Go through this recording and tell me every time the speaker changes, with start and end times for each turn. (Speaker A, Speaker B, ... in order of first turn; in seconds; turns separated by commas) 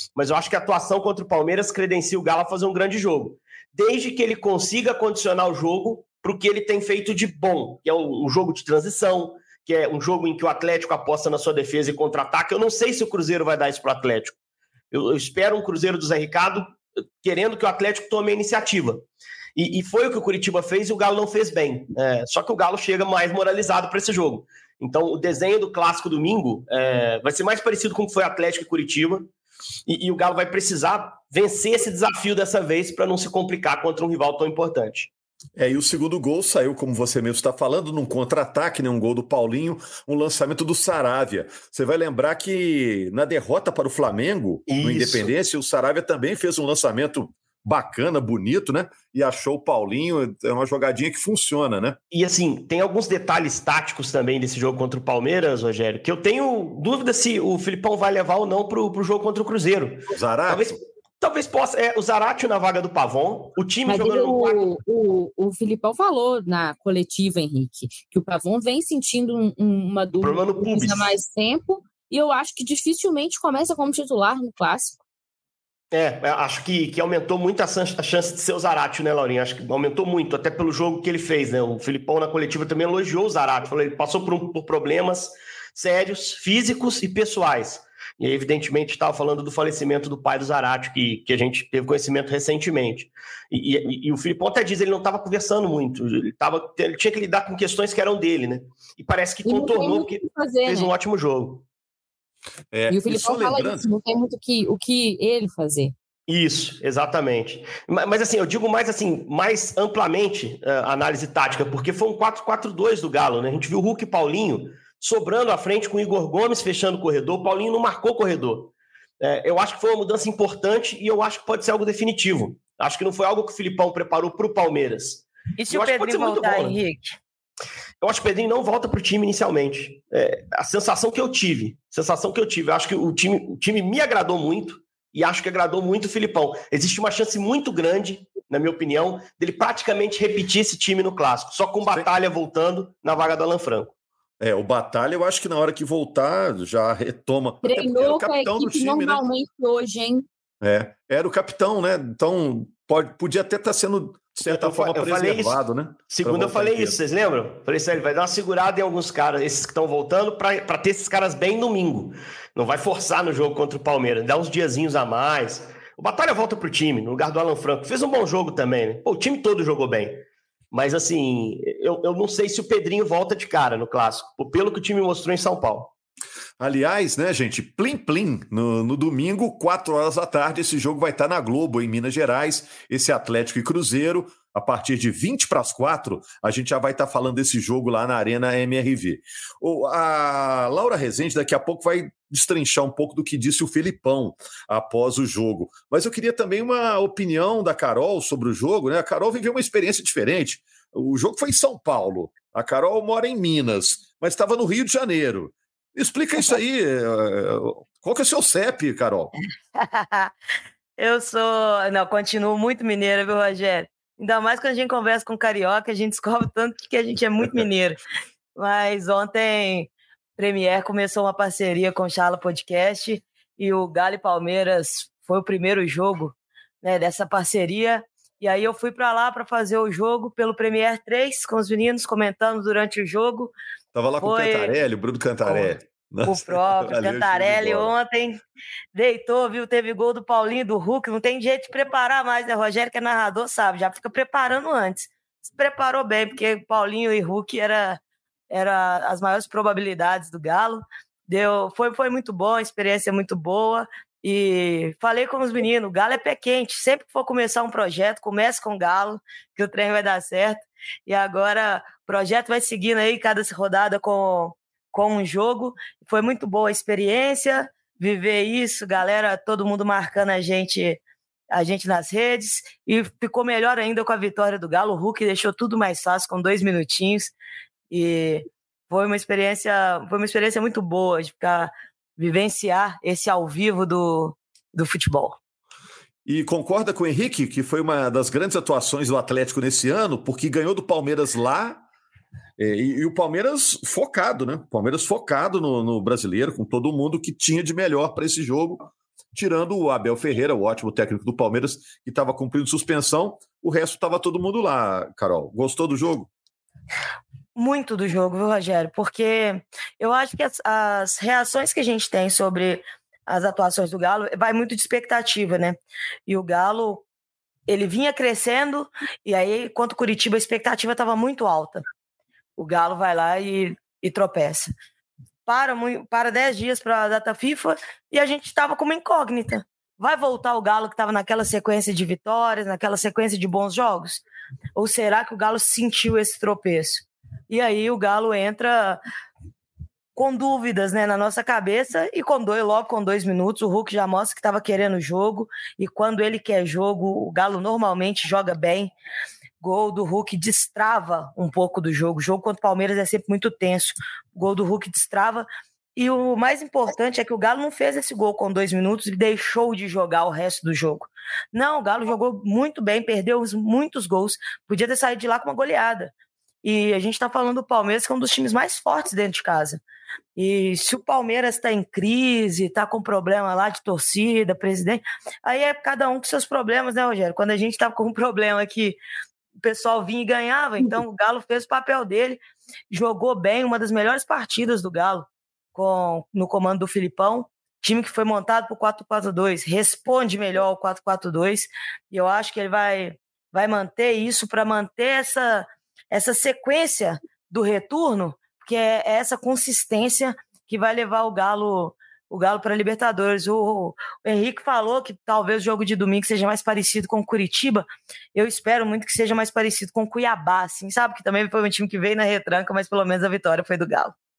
Speaker A: 0.1-14.3, Speaker A: 14.9-19.0, Speaker A: 19.6-29.3, Speaker A: 29.9-35.1, Speaker B: 35.5-52.0, Speaker A: 44.7-45.3, Speaker A: 52.1-64.6, Speaker B: 60.1-60.8, Speaker C: 63.9-75.0, Speaker A: 70.2-71.1, Speaker A: 75.9-101.6, Speaker C: 99.4-100.9, Speaker B: 102.7-103.9, Speaker C: 102.9-105.9, Speaker A: 106.3-126.8, Speaker D: 125.6-127.2, Speaker A: 128.0-143.9, Speaker B: 144.4-149.2, Speaker C: 147.6-150.2, Speaker B: 150.6-157.0, Speaker A: 154.4-155.6, Speaker A: 156.1-175.9, Speaker B: 176.6-209.3, Speaker D: 209.8-210.3, Speaker D: 211.0-218.0, Speaker D: 218.6-233.5, Speaker B: 233.9-237.9, Speaker D: 234.2-234.7, Speaker D: 235.4-235.7, Speaker D: 236.2-238.4, Speaker D: 238.9-248.0, Speaker D: 248.5-271.0, Speaker D: 271.5-277.3, Speaker D: 277.9-285.4, Speaker B: 286.2-291.8, Speaker B: 292.6-306.3, Speaker D: 307.5-317.0, Speaker D: 317.7-321.8, Speaker D: 322.6-324.7, Speaker D: 325.4-334.2, Speaker D: 334.8-339.0, Speaker D: 340.1-348.9, Speaker D: 349.6-366.1, Speaker D: 366.6-369.8, Speaker D: 370.4-379.0, Speaker D: 379.6-382.4, Speaker D: 382.9-414.1